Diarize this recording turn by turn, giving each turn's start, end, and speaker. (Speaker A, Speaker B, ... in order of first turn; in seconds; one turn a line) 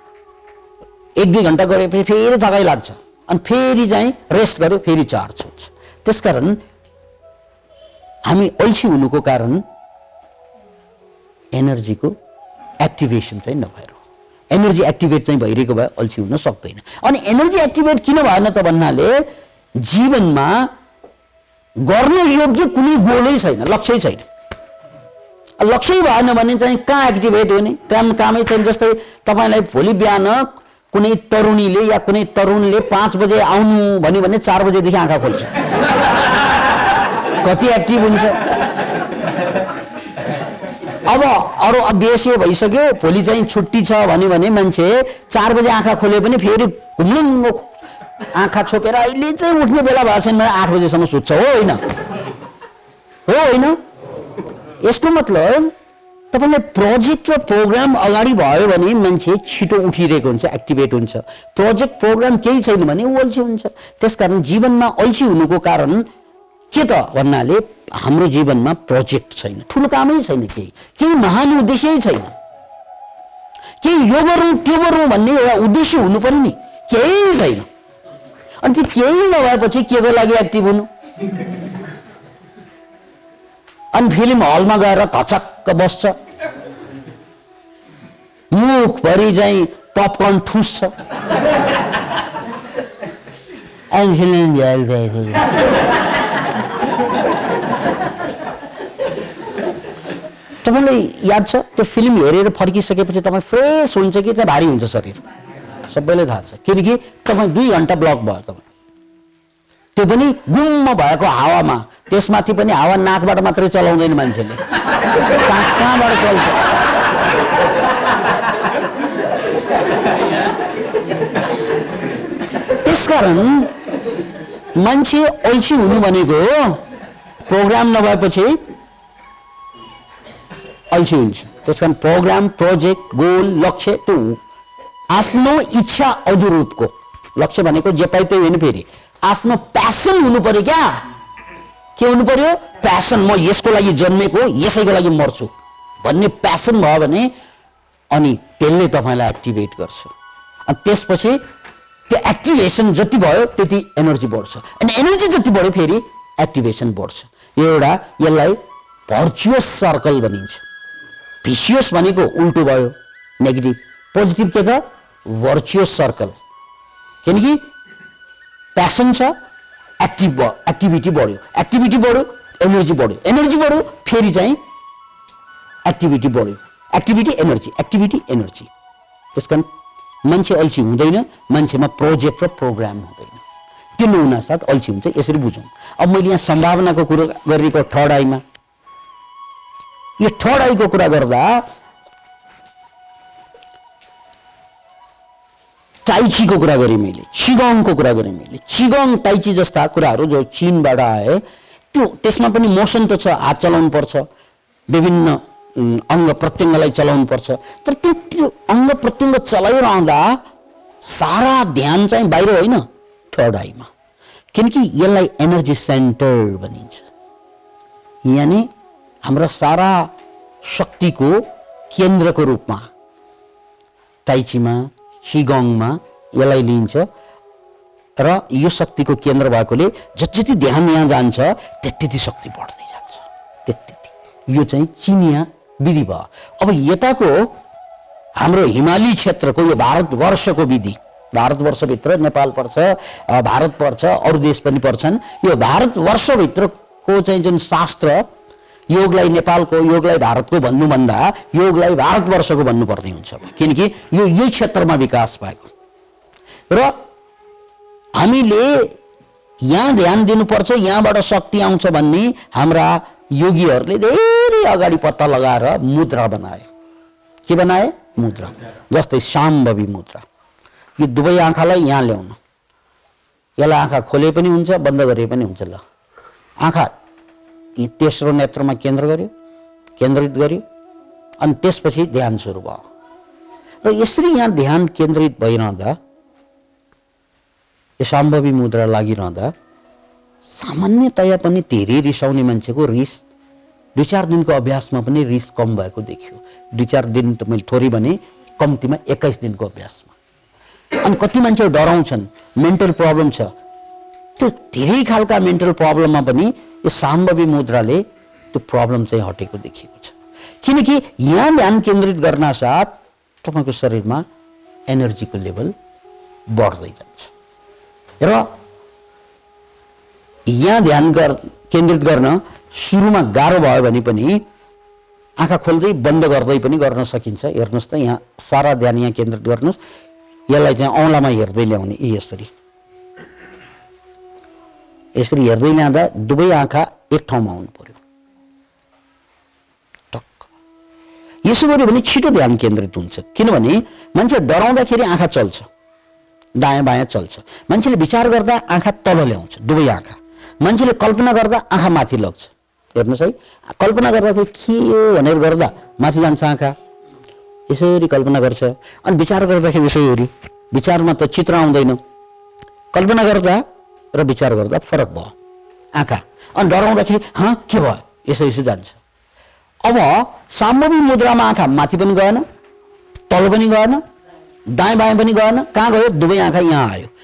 Speaker A: 1.2-6.6
Speaker A: 8.3-9.6
Speaker A: 11.5-12.1
Speaker A: 12.8-14.0
Speaker A: 14.5-19.2
Speaker A: 19.8-20.7
Speaker A: 21.8-24.2
Speaker A: 25.6-35.5
Speaker A: 37.4-38.4
Speaker A: 41.0-47.7
Speaker A: 48.3-51.8
Speaker A: 53.2-53.8
Speaker A: 54.8-55.7
Speaker A: 56.3-66.0
Speaker A: 66.7-72.3
Speaker A: 73.8-77.7
Speaker A: 78.6-80.9
Speaker A: 83.9-86.2
Speaker A: 88.5-90.9
Speaker A: 93.9-95.5
Speaker A: 100.6-105.2
Speaker A: 105.9-108.7
Speaker A: 109.9-114.6
Speaker A: 115.4-116.7
Speaker A: 122.8-123.7
Speaker A: 124.8-126.8
Speaker A: 127.4-128.6
Speaker A: 130.9-134.4
Speaker A: 135.1-141.0
Speaker A: 142.0-145.5
Speaker A: 146.0-147.3
Speaker A: 148.1-150.1
Speaker A: 150.7-151.4
Speaker A: 152.1-160.6
Speaker A: 161.4-166.4
Speaker A: 167.2-167.6
Speaker A: 168.7-169.3
Speaker A: 170.0-174.6
Speaker A: 175.8-178.7
Speaker A: 179.3-179.7
Speaker A: 180.2-183.4
Speaker A: 184.0-188.4
Speaker A: 190.2-191.6
Speaker A: 196.0-204.3
Speaker A: 204.9-210.4
Speaker A: 211.0-213.9
Speaker A: 214.5-217.1
Speaker A: 218.2-218.7
Speaker A: 219.2-220.1
Speaker A: 220.6-221.4
Speaker A: 221.9-222.8
Speaker A: 224.2-227.1
Speaker A: 228.2-237.5
Speaker A: 238.4-248.2
Speaker A: 248.9-255.7
Speaker A: 256.7-256.9
Speaker A: 258.2-259.0
Speaker A: 259.6-266.7
Speaker A: 267.4-270.2
Speaker A: 271.0-272.4
Speaker A: 273.6-275.8
Speaker A: 276.6-276.9
Speaker A: 277.8-279.3
Speaker A: 280.0-280.6
Speaker A: 281.4-282.8
Speaker A: 283.8-286.0
Speaker A: 288.0-289.5
Speaker A: 290.5-293.2
Speaker A: 293.9-300.1
Speaker A: 301.0-303.5
Speaker A: 304.4-314.2
Speaker A: 314.9-315.7
Speaker A: 316.5-317.3
Speaker A: 318.2-318.5
Speaker A: 320.5-324.4
Speaker A: 325.4-329.8
Speaker A: 330.5-332.5
Speaker A: 335.1-338.0
Speaker A: 340.1-340.5
Speaker A: 341.4-345.7
Speaker A: 346.6-356.7
Speaker A: 357.7-362.0
Speaker A: 362.9-365.3
Speaker A: 365.9-369.0
Speaker A: 369.8-372.4
Speaker A: 373.3-374.0
Speaker A: 374.7-377.1